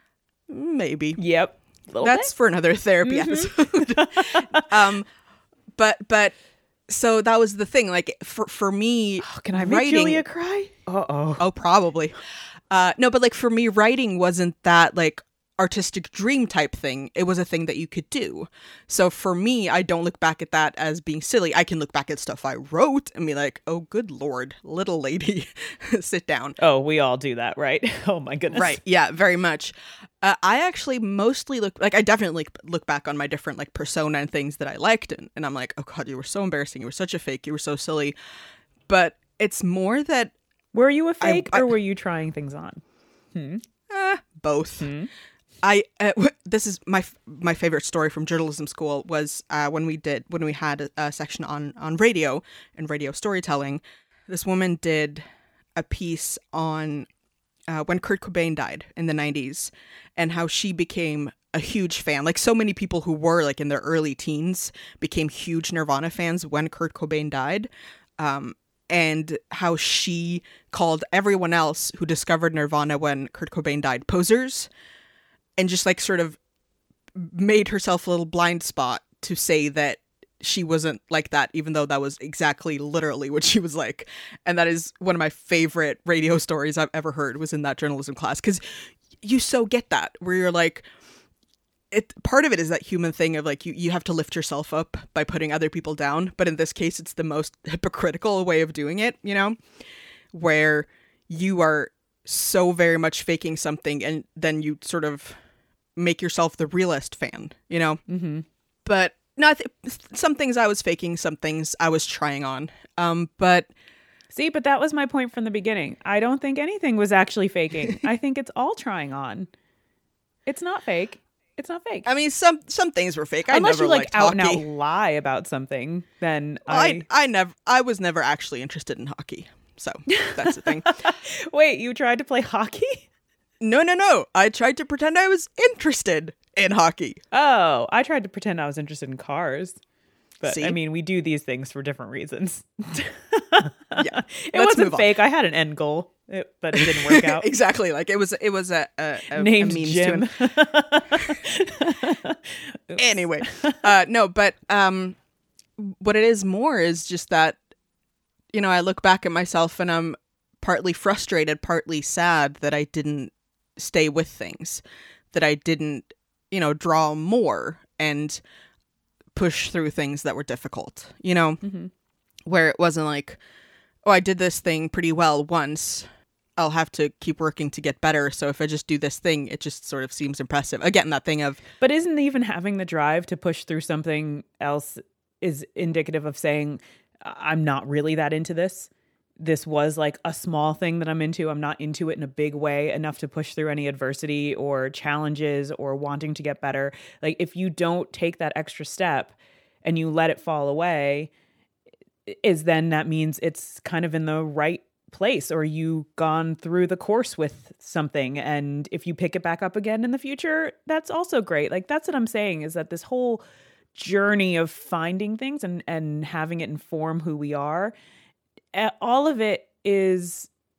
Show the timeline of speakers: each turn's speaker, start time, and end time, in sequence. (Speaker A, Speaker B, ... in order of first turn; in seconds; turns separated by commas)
Speaker A: 0.5-1.2, Speaker B: 1.2-2.3, Speaker A: 2.0-5.1, Speaker B: 3.0-4.7, Speaker A: 5.8-6.4, Speaker A: 6.9-10.2, Speaker B: 9.2-11.4, Speaker A: 11.4-12.2, Speaker A: 12.7-26.6, Speaker B: 26.6-28.8, Speaker A: 28.5-38.1, Speaker A: 38.9-40.4, Speaker B: 40.7-42.8, Speaker A: 41.2-41.7, Speaker B: 43.3-43.6, Speaker A: 43.9-44.9, Speaker B: 44.8-45.1, Speaker A: 45.6-55.2, Speaker A: 55.8-57.1, Speaker A: 57.7-74.7, Speaker A: 75.6-76.4, Speaker A: 77.2-90.8, Speaker A: 91.9-99.6, Speaker A: 100.3-105.4, Speaker A: 106.0-108.0, Speaker B: 108.1-108.5, Speaker A: 108.8-113.7, Speaker B: 114.3-119.5, Speaker B: 120.5-122.1, Speaker A: 122.0-124.7, Speaker B: 123.5-127.1, Speaker A: 126.7-131.0, Speaker B: 130.1-133.1, Speaker A: 133.6-137.2, Speaker B: 137.3-139.8, Speaker B: 140.4-147.5, Speaker A: 140.4-140.8, Speaker A: 144.0-145.1, Speaker A: 146.8-150.3, Speaker B: 149.3-153.9, Speaker A: 153.0-155.2, Speaker A: 155.8-157.6, Speaker A: 158.5-168.4, Speaker A: 169.3-171.6, Speaker B: 171.6-171.9, Speaker A: 172.5-173.4, Speaker A: 174.1-176.1, Speaker A: 176.6-181.6, Speaker B: 181.8-201.3, Speaker B: 202.3-213.4, Speaker B: 213.9-217.9, Speaker B: 218.7-220.5